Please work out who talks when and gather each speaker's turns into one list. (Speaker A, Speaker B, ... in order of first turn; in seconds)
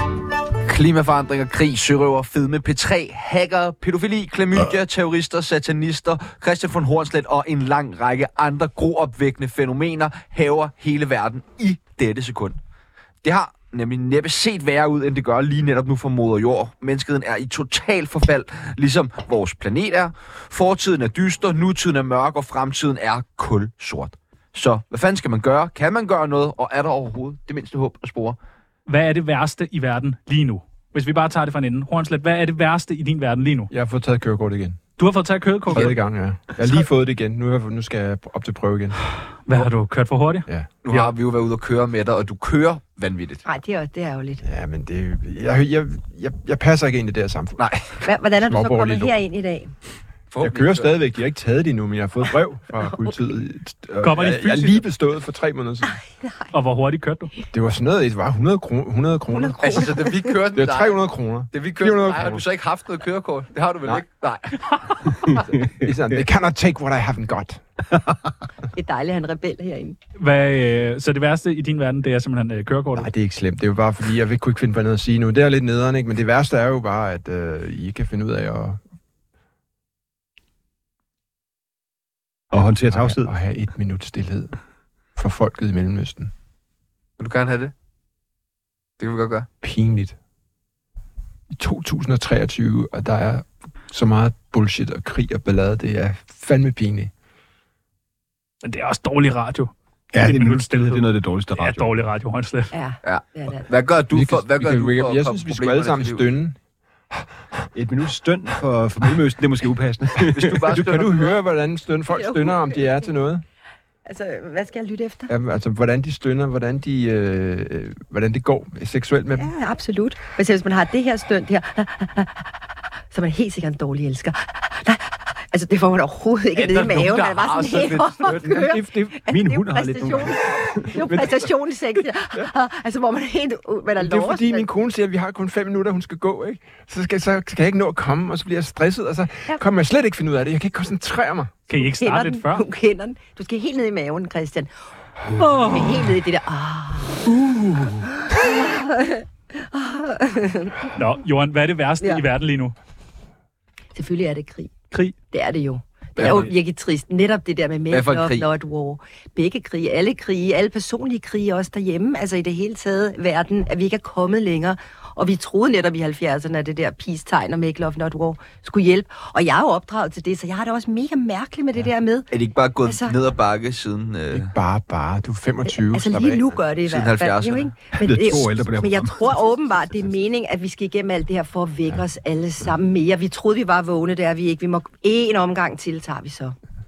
Speaker A: 0.6-12.6, 13.2-28.4, 40.8-43.4, 50.3-50.9, 59.6-64.6, 87.2-87.7, 89.0-89.5, 103.0-106.2, 110.3-111.3, 126.5-128.4, 156.2-156.5, 157.9-158.4, 172.3-174.5, 176.9-177.7
Speaker B: 28.9-33.7, 35.0-35.9, 39.5-41.1, 54.0-54.8, 56.5-57.3, 70.2-73.1, 98.6-102.7, 141.7-142.7, 145.3-146.0, 147.3-148.1, 150.9-152.7, 156.2-156.5
Speaker C: 33.7-34.8, 35.7-39.0, 44.4-49.1, 50.4-56.0, 57.5-62.4, 65.8-67.6, 73.0-78.8, 82.9-84.6, 85.2-86.3, 89.6-90.2, 91.5-97.1, 104.1-106.6, 110.5-113.4, 115.3-119.5, 127.8-130.3, 131.1-131.3, 134.0-141.6, 174.3-176.4
Speaker D: 43.4-44.4, 48.0-49.7, 56.2-56.5, 59.3-60.1, 68.7-70.0, 102.7-103.7, 112.1-113.0, 114.1-115.3, 119.3-122.5, 123.1-134.7, 141.8-144.7, 145.3-147.3, 148.2-150.8, 153.9-154.7, 155.3-172.3, 172.8-173.1, 175.7-186.6
Speaker E: 65.3-65.9, 82.5-83.3, 100.1-101.9, 107.7-111.2, 129.3-131.0, 177.9-179.8